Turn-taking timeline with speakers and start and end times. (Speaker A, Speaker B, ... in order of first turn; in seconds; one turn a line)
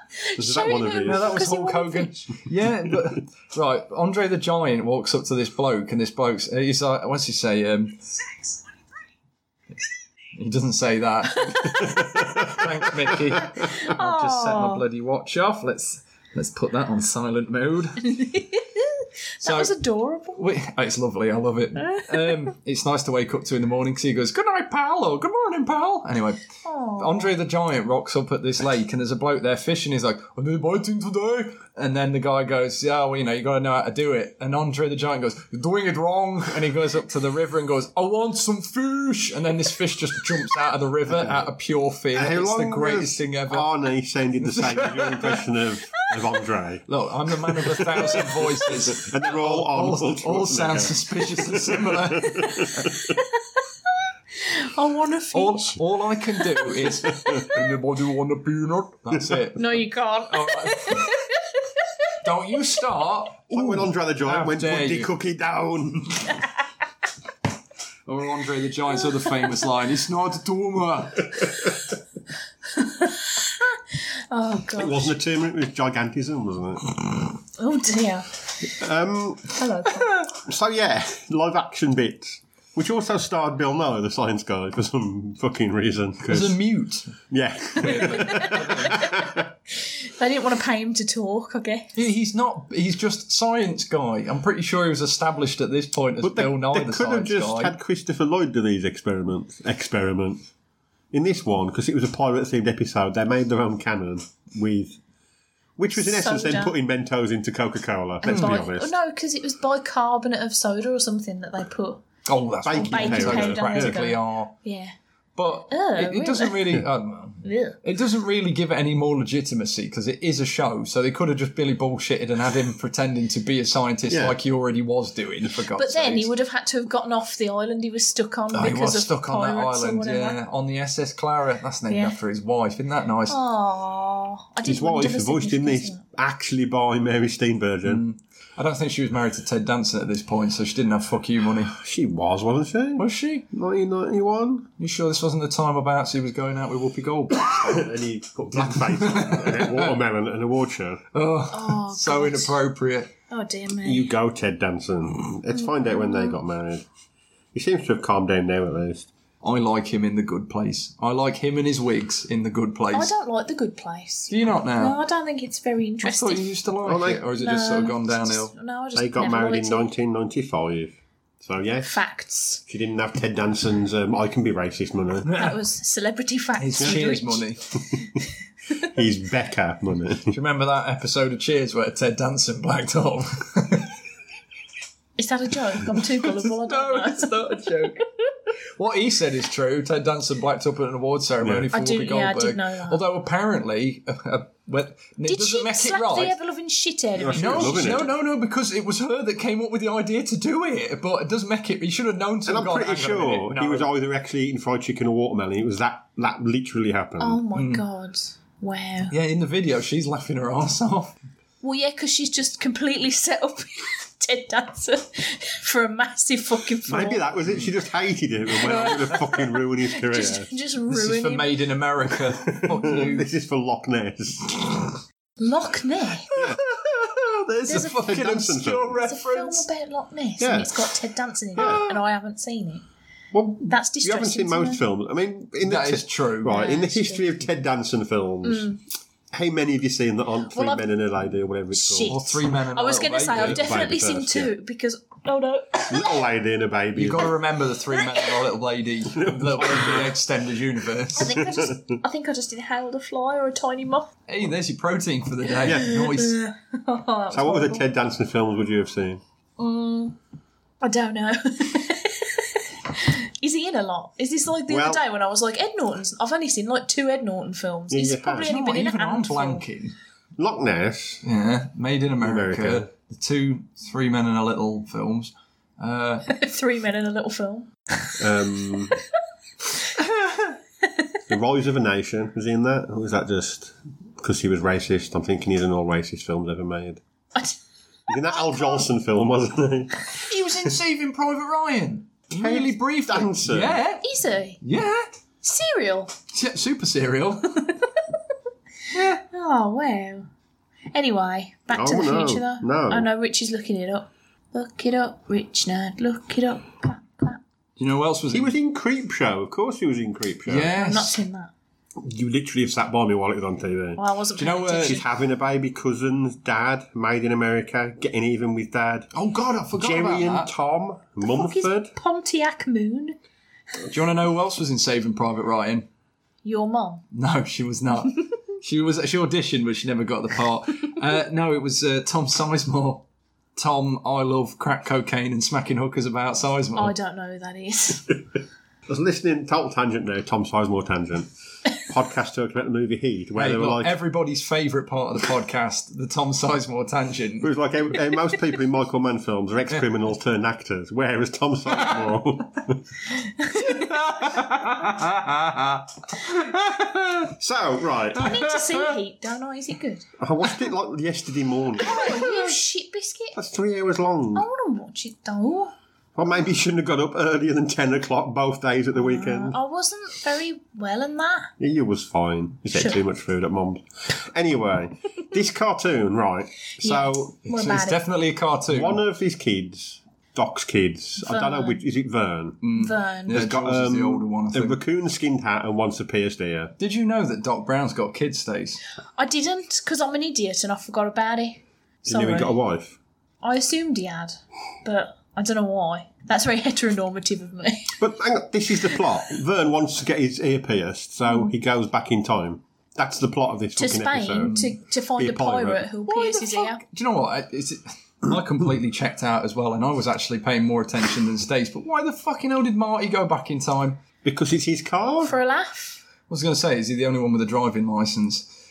Speaker A: 0.2-2.1
Speaker B: 0.3-1.3
Speaker C: 1.0-8.0
Speaker C: 10.3-18.2
Speaker A: 11.4-12.1
Speaker B: 11.8-13.4
Speaker A: 13.6-14.8
Speaker A: 18.0-20.4
Speaker C: 19.4-19.7
Speaker C: 20.3-26.4
Speaker A: 21.8-22.4
Speaker A: 26.6-27.3
Speaker C: 27.0-43.7
Speaker B: 41.1-41.4
Speaker B: 42.1-46.8
Speaker C: 44.4-45.4
Speaker C: 46.9-52.9
Speaker B: 47.5-53.1
Speaker A: 52.6-53.2
Speaker A: 54.4-55.8
Speaker C: 55.3-59.7
Speaker A: 56.5-57.6
Speaker B: 59.1-59.4
Speaker A: 59.5-61.8
Speaker C: 60.3-61.1
Speaker C: 62.2-65.1
Speaker B: 63.5-66.4
Speaker C: 68.0-71.5
Speaker A: 72.7-75.1
Speaker B: 74.7-76.9
Speaker A: 77.6-78.4
Speaker B: 78.6-79.6
Speaker A: 79.6-80.2
Speaker B: 80.2-86.6
Speaker C: 86.2-87.2
Speaker B: 87.3-89.5
Speaker C: 87.8-89.1
Speaker A: 87.9-91.9
Speaker C: 92.0-97.7
Speaker B: 96.2-100.4
Speaker B: 101.1-105.0
Speaker B: 105.8-108.9
Speaker A: 105.9-106.7
Speaker A: 108.2-112.0
Speaker C: 108.2-108.6
Speaker C: 112.2-114.5
Speaker B: 112.6-113.9
Speaker A: 112.9-114.9
Speaker C: 115.3-126.3
Speaker A: 115.7-116.5
Speaker A: 117.4-117.8
Speaker B: 124.1-124.3
Speaker A: 125.8-130.4
Speaker C: 128.5-133.4
Speaker A: 131.9-132.2
Speaker A: 133.3-136.0
Speaker B: 134.6-138.0
Speaker C: 137.8-141.8
Speaker B: 141.7-144.7
Speaker C: 143.0-143.4
Speaker C: 144.8-147.8
Speaker B: 147.5-151.0
Speaker C: 148.6-149.9
Speaker C: 151.1-153.1
Speaker A: 151.5-152.5
Speaker A: 153.3-154.1
Speaker B: 153.8-156.8
Speaker A: 155.6-156.4
Speaker B: 157.5-159.1
Speaker C: 159.4-163.1
Speaker A: 162.9-166.5
Speaker C: 164.3-165.0
Speaker C: 166.0-168.5
Speaker B: 166.8-167.2
Speaker A: 167.4-169.9
Speaker B: 168.9-171.9
Speaker A: 171.8-172.6
Speaker B: 172.7-175.3
Speaker C: 175.2-175.6
Speaker A: 175.3-177.4
Speaker C: 176.6-177.6
Speaker B: 178.8-180.3
Speaker C: 180.3-183.9
Speaker A: 185.2-187.7
Speaker C: 186.2-188.1
Speaker C: 188.8-196.3
Speaker B: 191.4-191.7
Speaker A: 191.7-193.0
Speaker A: 195.3-198.1
Speaker B: 197.2-198.1
Speaker C: 197.3-203.9
Speaker B: 202.4-207.4
Speaker A: 207.2-209.1
Speaker C: 207.5-207.8
Speaker C: 209.1-211.1
Speaker A: 211.6-217.2
Speaker B: 216.8-220.5
Speaker C: 218.6-219.4
Speaker A: 219.9-221.5
Speaker C: 220.9-223.3
Speaker B: 222.5-224.9
Speaker A: 225.4-226.3
Speaker C: 226.3-229.7
Speaker B: 226.3-226.6
Speaker A: 227.7-232.8
Speaker B: 227.7-229.0
Speaker B: 230.4-230.9
Speaker B: 231.6-231.8
Speaker C: 231.6-231.8
Speaker B: 233.3-238.8
Speaker A: 233.7-234.8
Speaker C: 235.6-236.7
Speaker A: 236.4-237.4
Speaker A: 238.4-238.8
Speaker B: 239.3-242.2
Speaker A: 240.5-240.8
Speaker A: 241.7-246.2
Speaker C: 242.0-243.6
Speaker B: 243.3-244.5
Speaker B: 245.9-247.3
Speaker C: 246.9-251.4
Speaker A: 247.9-248.4
Speaker B: 249.1-250.1
Speaker A: 251.1-254.1
Speaker B: 251.2-251.8
Speaker C: 254.3-256.4
Speaker A: 255.6-257.9
Speaker B: 255.6-255.9
Speaker B: 257.3-259.2
Speaker A: 259.6-260.1
Speaker A: 260.8-269.6
Speaker B: 264.7-265.0
Speaker B: 267.9-268.5
Speaker C: 268.4-269.9
Speaker B: 270.4-271.2
Speaker C: 271.2-276.3
Speaker B: 272.2-272.9
Speaker A: 276.3-279.0
Speaker B: 278.2-278.9
Speaker B: 281.3-287.0
Speaker B: 288.1-290.7
Speaker A: 288.1-288.8
Speaker C: 290.2-294.0
Speaker B: 292.3-293.8
Speaker A: 294.0-294.6
Speaker C: 294.6-295.1
Speaker A: 295.4-296.1
Speaker C: 296.3-297.6
Speaker A: 297.6-297.9
Speaker C: 298.9-299.2
Speaker A: 299.2-300.3
Speaker A: 300.9-307.4
Speaker B: 301.7-303.1
Speaker C: 307.8-308.6
Speaker B: 308.3-310.7
Speaker C: 310.5-311.2
Speaker A: 310.8-311.5
Speaker B: 312.0-314.0
Speaker A: 314.0-315.0
Speaker C: 314.4-315.0
Speaker B: 314.8-319.1
Speaker C: 319.1-320.5
Speaker B: 319.7-321.9
Speaker A: 321.2-323.2
Speaker C: 323.9-325.9
Speaker A: 326.4-327.0
Speaker C: 327.1-336.9
Speaker A: 336.8-338.1
Speaker B: 338.9-343.9
Speaker C: 343.4-347.5
Speaker B: 347.4-352.8
Speaker A: 353.4-353.9
Speaker C: 353.5-357.3
Speaker B: 357.4-358.3
Speaker C: 358.1-358.9
Speaker A: 358.2-360.1
Speaker B: 360.2-362.4
Speaker A: 361.8-363.4
Speaker B: 363.3-364.4
Speaker A: 364.3-365.7
Speaker B: 366.1-369.6
Speaker A: 368.9-371.5
Speaker B: 371.6-377.3
Speaker A: 376.8-378.0
Speaker C: 377.4-379.0
Speaker B: 378.7-382.6
Speaker A: 381.2-381.8
Speaker C: 382.6-384.8
Speaker A: 382.7-383.3
Speaker B: 383.3-386.7
Speaker C: 386.8-388.8
Speaker A: 389.2-392.6
Speaker B: 392.0-393.0
Speaker A: 393.4-398.0
Speaker B: 398.0-404.5
Speaker A: 403.8-406.8
Speaker C: 404.4-404.7
Speaker B: 405.2-405.8
Speaker C: 406.1-414.0
Speaker B: 414.2-415.3
Speaker A: 415.2-416.0
Speaker C: 416.3-418.5